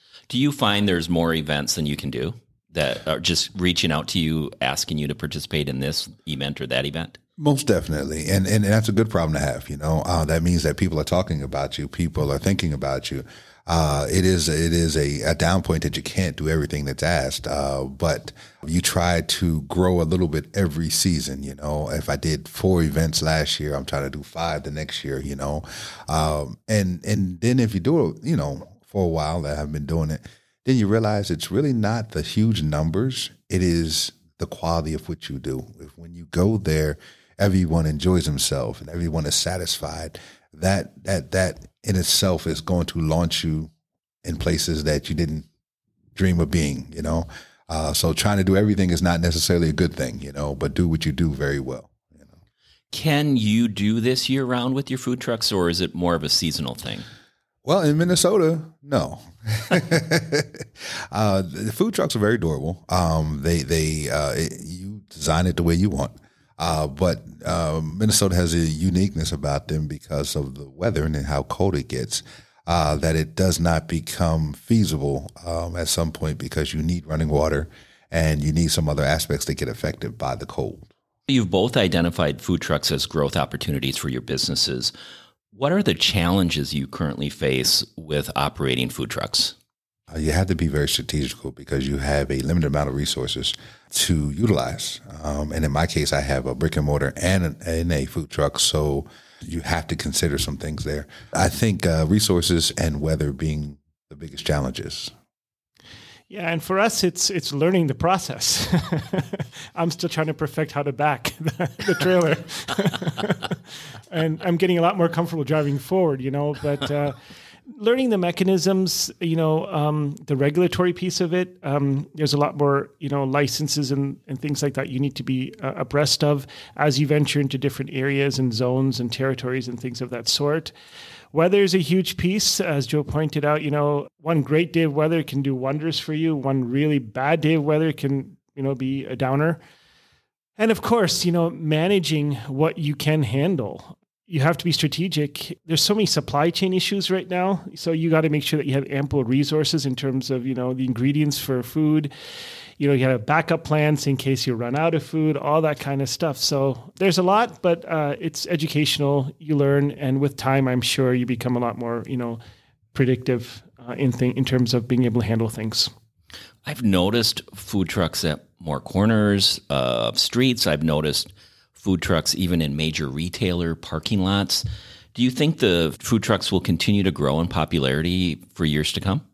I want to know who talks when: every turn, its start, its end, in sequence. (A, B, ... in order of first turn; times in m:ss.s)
0:00.3-0:07.2 A
0:07.4-0:43.7 B
0:44.2-0:45.5 B
0:46.2-0:52.4 B
0:52.9-0:57.0 A
0:57.6-1:20.9 B
1:21.3-1:24.9 A
1:25.5-1:29.5 A
1:30.1-1:45.1 B
1:46.3-1:53.6 C
1:54.1-1:57.2 C
1:57.7-2:10.7 C
2:11.3-2:19.6 C
2:20.6-2:32.1 C
2:32.8-2:42.4 C
2:42.9-2:45.9 C
2:46.6-2:59.2 A